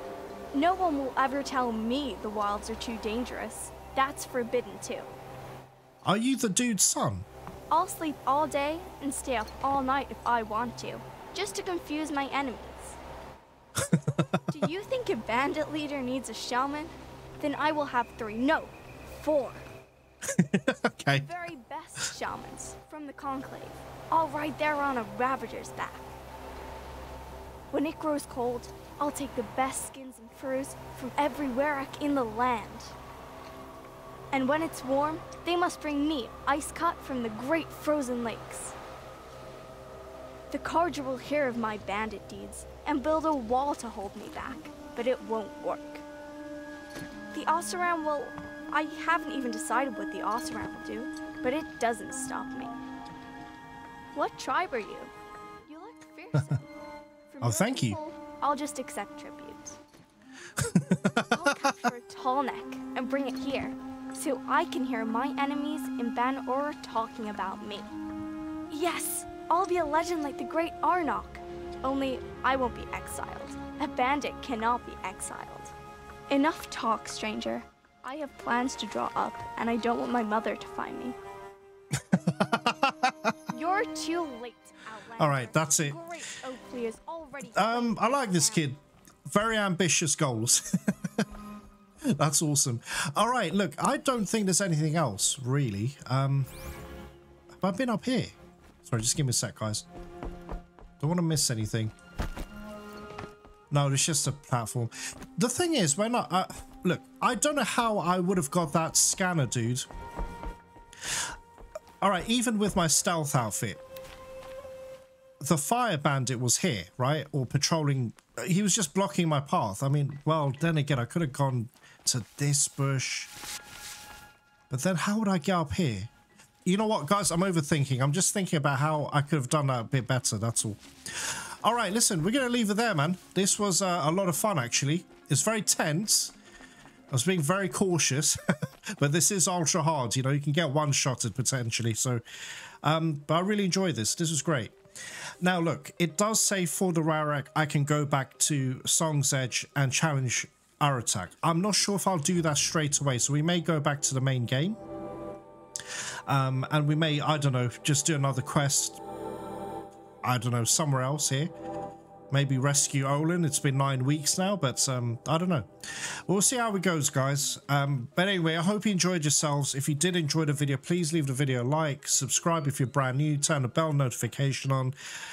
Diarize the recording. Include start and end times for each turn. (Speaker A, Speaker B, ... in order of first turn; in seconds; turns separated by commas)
Speaker A: 0.5-5.1, Speaker B: 6.0-7.3, Speaker A: 7.7-13.0, Speaker B: 13.8-14.5, Speaker A: 14.5-19.6, Speaker B: 20.3-21.3, Speaker A: 21.1-26.1, Speaker A: 27.7-33.0, Speaker A: 34.3-38.7, Speaker A: 40.5-46.0, Speaker A: 47.3-52.8, Speaker A: 54.1-55.1, Speaker A: 55.6-56.6, Speaker A: 57.3-59.8, Speaker B: 57.4-58.0, Speaker B: 60.6-61.8, Speaker A: 61.1-67.9, Speaker A: 68.7-75.7, Speaker A: 76.3-81.2, Speaker B: 82.0-83.4, Speaker A: 83.5-88.7, Speaker B: 85.2-86.0, Speaker B: 87.5-90.9, Speaker B: 92.0-96.5, Speaker B: 97.6-99.9, Speaker B: 101.0-101.9, Speaker B: 103.7-109.9, Speaker B: 112.0-113.8, Speaker B: 115.4-123.3, Speaker B: 124.7-126.1, Speaker B: 126.7-136.3, Speaker B: 137.1-142.2, Speaker B: 142.8-144.7, Speaker B: 145.4-154.8, Speaker B: 156.3-159.0, Speaker B: 160.2-161.5, Speaker B: 162.3-174.9